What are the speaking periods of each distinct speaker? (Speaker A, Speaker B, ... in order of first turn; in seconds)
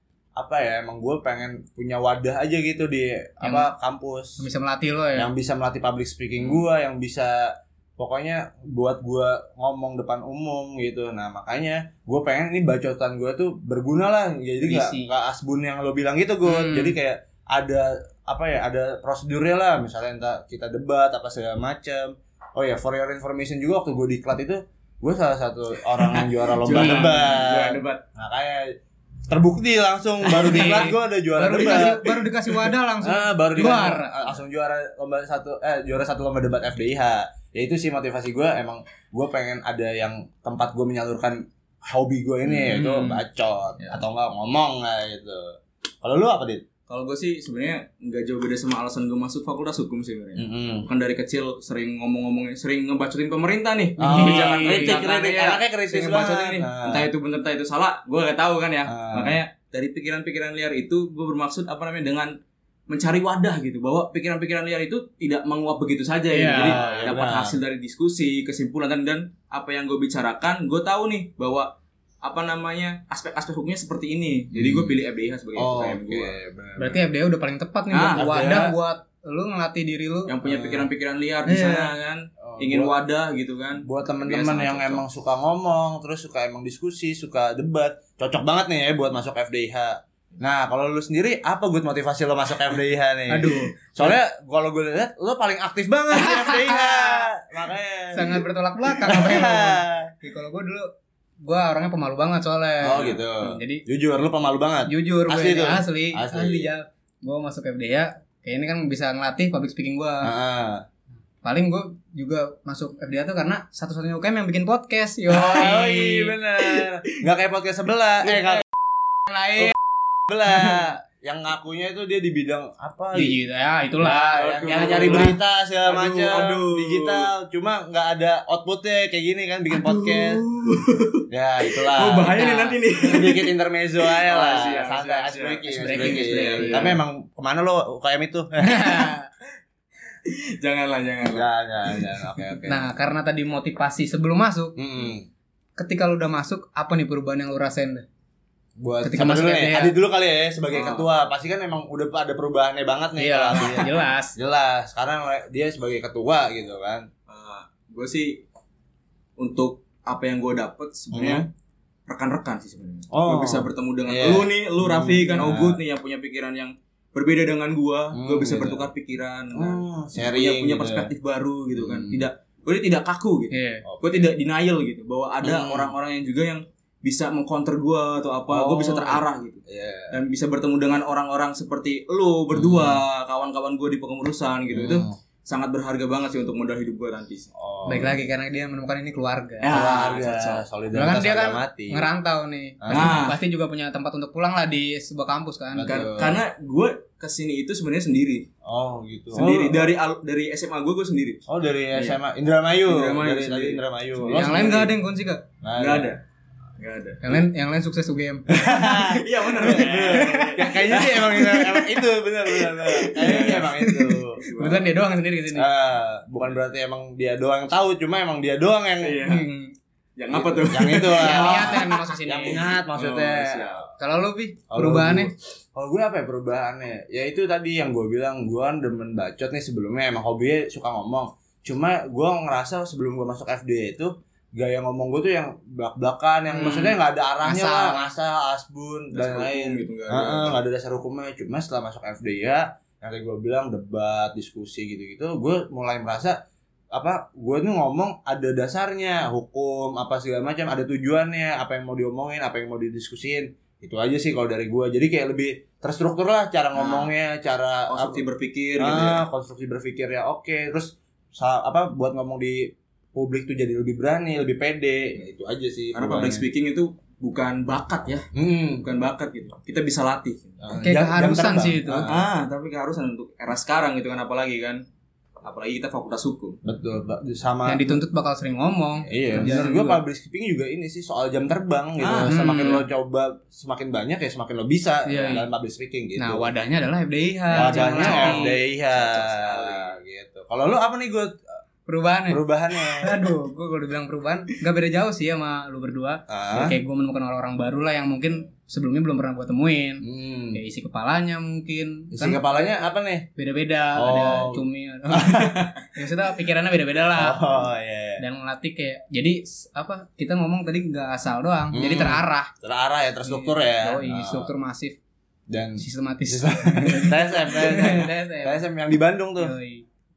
Speaker A: 0.4-4.5, 5.2-28.8, 29.3-32.1, 33.0-46.6, 50.4-50.9, 54.0-57.1, 58.9-59.4, 66.5-67.6, 74.5-74.9, 75.6-77.0, 78.2-78.7, 80.4-80.9, 82.4-83.0, 83.8-100.1, 102.8-106.7, 110.2-110.8, 115.3-118.7, 120.3-123.4, 124.0-130.4, 131.3-139.1, 141.3-142.9, 144.8-145.3, 148.8-157.1, 161.1-161.5, 163.1-165.8, 168.1-168.9, 169.5-171.1, 171.8-172.2, 173.8-174.3, 175.4-175.9, 178.5-180.2, 182.5-183.0, 184.7-185.2, 187.6-188.2, 189.7-192.1, 192.8-193.2, 195.8-196.4, 198.6-199.9, 201.5-204.9, 205.6-206.1, 208.5-214.4, 215.5-219.2, 220.3-223.8, 224.7-246.4, 246.9-258.2, 258.8-266.4, 268.3-268.9, 270.6-272.2, 276.6-278.0, 279.1-286.5, 287.5-291.6, 292.3-293.1, 296.3-296.8, 300.0-300.6, 302.1-303.3, 303.9-305.8, 307.2-308.2, 311.7-314.5, 315.5-319.6
Speaker B: 3.4-3.7, 4.4-5.3, 14.6-15.1, 16.4-17.0, 26.8-27.1, 30.3-34.3, 42.7-43.2, 54.0-55.0, 66.3-66.8, 76.8-80.3, 81.5-81.9, 93.3-94.1, 96.2-97.3, 98.1-100.9, 101.4-103.8, 104.9-110.3, 111.4-116.3, 119.3-119.7, 123.1-125.4, 132.3-132.8, 135.7-137.0, 138.6-139.3, 142.7-144.8, 145.8-148.1, 149.0-150.0, 153.2-154.4, 173.5-173.8, 187.9-189.8, 190.9-196.0, 204.3-205.4, 207.2-209.1, 209.8-211.1, 212.9-215.7, 219.2-219.7, 221.1-222.7, 224.0-225.3, 236.5-238.1, 270.8-272.1, 277.6-280.0, 282.2-282.9, 285.1-285.4, 286.2-288.6, 291.9-292.4, 293.0-302.4, 303.4-307.6, 308.2-312.5, 313.2-315.0, 315.8-318.6, 319.4-319.9
Speaker C: 26.0-28.0, 46.9-62.3, 62.9-71.7, 72.2-76.3, 77.9-78.5, 80.3-85.0, 124.4-127.3, 129.7-137.0, 140.3-142.4, 150.7-151.1, 157.3-158.4, 159.4-161.5, 162.1-187.5, 189.6-190.7, 192.9-193.4, 195.8-198.5, 199.3-202.2, 202.8-204.8, 205.8-206.2, 206.8-207.4, 208.8-211.7, 213.2-213.7, 214.4-214.9, 219.0-219.5, 220.2-223.9, 239.1-240.6, 256.8-257.1, 257.9-259.2, 265.9-268.3, 268.8-270.6, 272.1-274.8, 275.4-276.6, 279.3-279.7, 282.0-282.4, 287.6-290.0